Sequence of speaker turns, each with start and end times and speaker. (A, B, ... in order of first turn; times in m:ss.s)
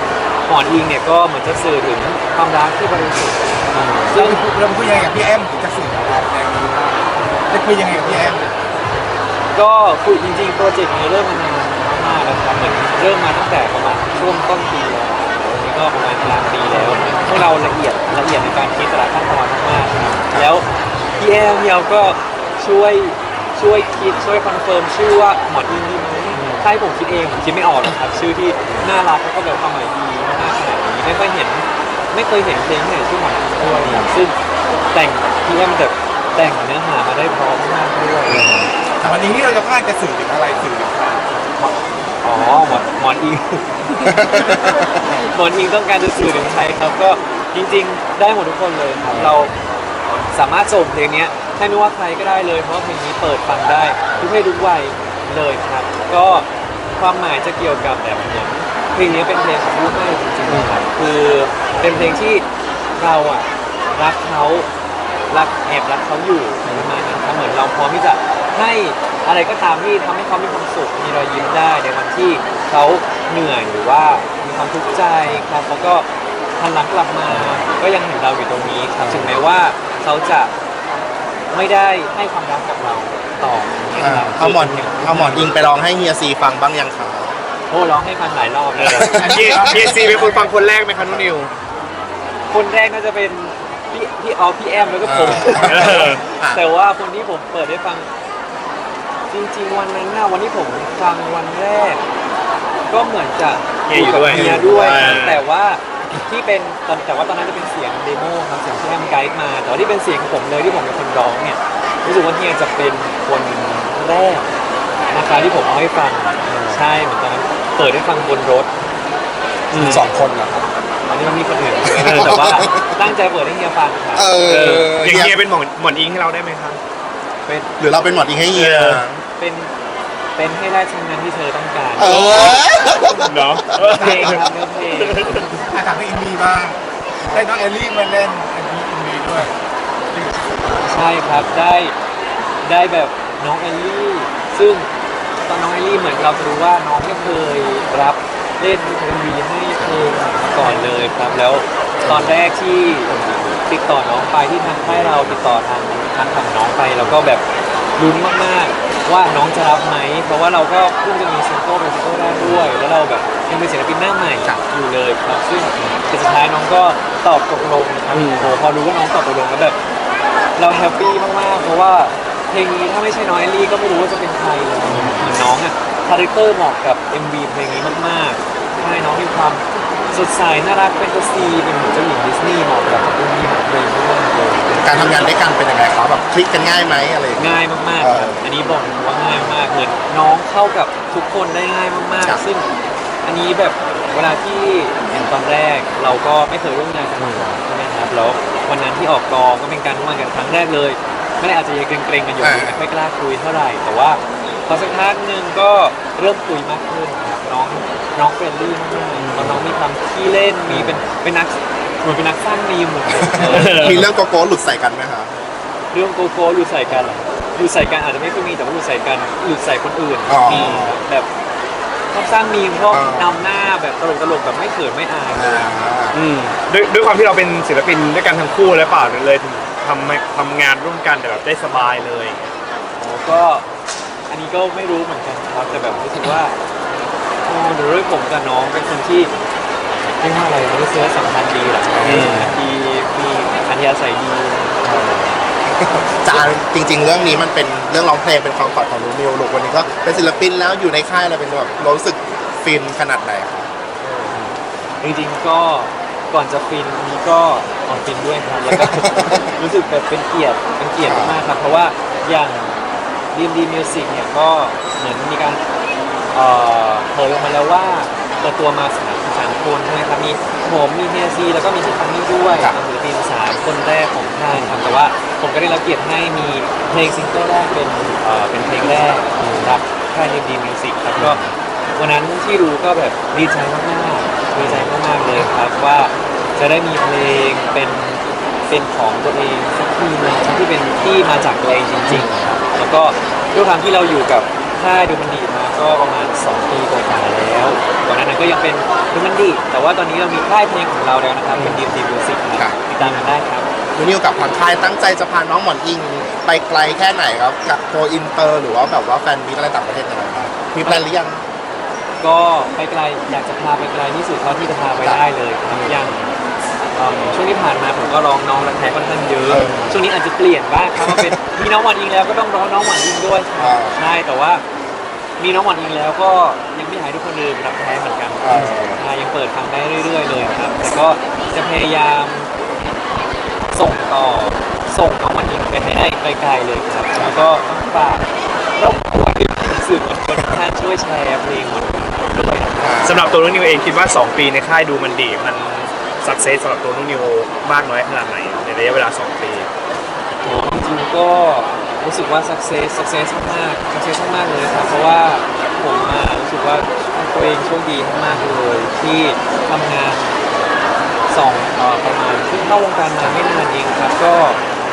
0:00.4-0:04.4 A
0:03.8-0:04.0 B
0:04.1-0:08.5 C
0:09.5-0:20.7 A
0:21.2-0:34.4 A
0:33.7-0:34.1 D
0:34.9-0:38.6 A
0:38.3-0:38.7 D
0:39.0-0:41.3 C
0:41.6-0:44.2 A
0:44.0-0:45.0 D
0:45.3-0:49.5 A
0:49.0-0:49.4 D
0:50.3-1:04.7 A
1:05.3-1:16.1 A
1:16.6-1:20.5 A
1:17.3-1:17.6 D
1:19.0-1:19.3 D
1:21.5-1:25.6 A
1:24.0-1:27.4 D
1:27.7-1:29.1 A
1:28.8-1:31.5 B
1:29.0-1:30.1 D
1:29.0-1:30.5 C
1:31.0-1:31.4 D
1:32.5-1:38.1 A
1:35.0-1:36.6 D
1:35.5-1:36.2 B
1:39.3-1:42.0 A
1:42.9-1:54.5 A
1:43.9-1:45.4 B
1:44.3-1:45.1 D
1:55.1-1:58.7 A
1:56.5-1:56.7 B
1:59.7-2:00.0 B
1:59.7-2:04.3 A
1:59.8-2:00.6 D
2:01.8-2:03.0 D
2:02.0-2:02.5 B
2:04.1-2:05.4 D
2:04.4-2:06.8 B
2:07.7-2:09.2 D
2:08.5-2:09.0 B
2:09.4-2:09.7 A
2:10.4-2:12.5 A
2:11.9-2:13.8 D
2:13.2-2:14.5 B
2:13.8-2:14.4 C
2:13.8-2:15.2 A
2:15.0-2:15.5 B
2:15.2-2:19.5 C
2:20.1-2:20.9 C
2:20.8-2:21.9 A
2:22.6-2:24.9 A
2:25.4-2:37.4 A
2:32.0-2:32.4 D
2:38.0-2:49.8 A
2:48.1-2:48.5 B
2:50.6-3:05.3 A
2:54.9-2:55.4 B
2:54.9-2:55.2 D
3:04.7-3:08.5 D
3:07.4-3:12.6 A
3:13.2-3:34.1 A
3:22.4-3:22.9 D
3:29.2-3:29.7 B
3:33.1-3:35.3 D
3:33.4-3:34.1 B
3:35.9-3:41.3 A
3:36.9-3:37.2 D
3:40.3-3:41.0 D
3:40.5-3:40.9 B
3:42.1-3:45.8 A
3:42.9-3:43.4 D
3:45.3-3:46.2 D
3:46.1-3:52.4 B
3:53.0-3:53.6 A
3:54.3-3:56.6 A
3:57.4-3:59.3 A
4:00.2-4:04.8 A
4:01.9-4:02.5 D
4:02.0-4:02.5 B
4:04.8-4:13.7 D
4:14.0-4:14.4 A
4:15.0-4:22.8 A
4:18.7-4:19.4 D
4:21.0-4:21.4 D
4:23.3-4:25.6 A
4:26.3-4:41.4 A
4:34.5-4:34.9 D
4:39.4-4:39.8 D
4:41.2-4:41.5 D
4:42.0-5:03.7 A
4:44.6-4:44.9 D
4:52.1-4:52.5 D
5:02.6-5:03.2 D
5:03.9-5:11.4 D
5:12.2-5:16.3 A
5:15.0-5:16.1 D
5:16.9-5:24.6 A
5:19.4-5:20.0 D
5:21.0-5:21.4 D
5:23.6-5:24.1 D
5:25.4-5:32.5 A
5:28.4-5:29.0 D
5:33.7-5:42.9 A
5:42.8-5:43.3 D
5:43.0-5:49.7 B
5:50.4-6:00.3 A
6:01.3-6:04.6 A